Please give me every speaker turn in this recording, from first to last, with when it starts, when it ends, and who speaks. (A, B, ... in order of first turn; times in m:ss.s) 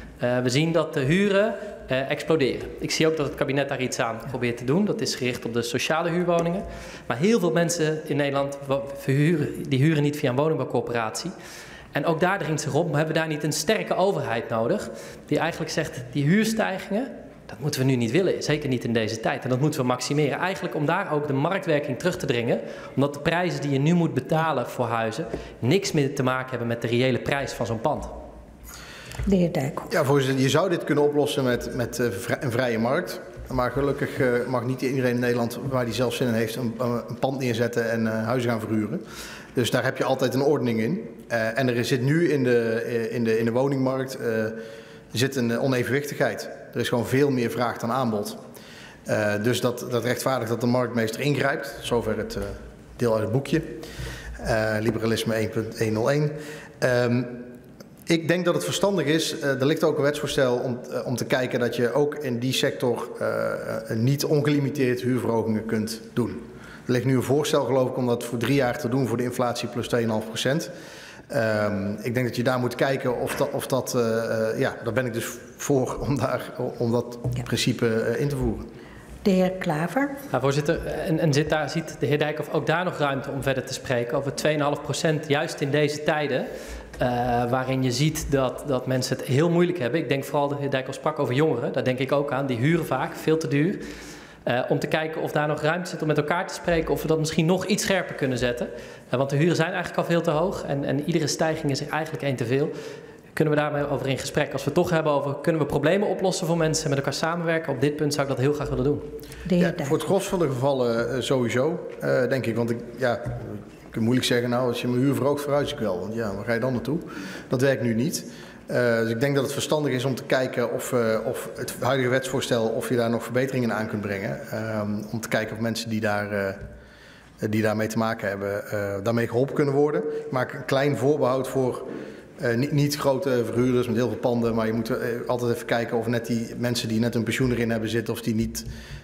0:00.2-0:11.3 A
0:11.9-0:28.1 A
0:29.2-0:29.9 B
0:29.9-0:39.0 C
0:39.6-0:44.6 C
0:45.1-0:48.4 C
0:49.1-0:53.7 C
0:54.4-0:57.4 C
0:58.1-1:10.7 C
1:11.3-1:18.6 C
1:19.2-1:20.1 B
1:20.3-1:33.8 A
1:34.4-1:42.7 A
1:43.4-1:49.0 A
1:49.4-1:50.0 B
1:49.6-2:06.6 C
2:07.4-2:11.9 C
2:12.4-2:18.7 C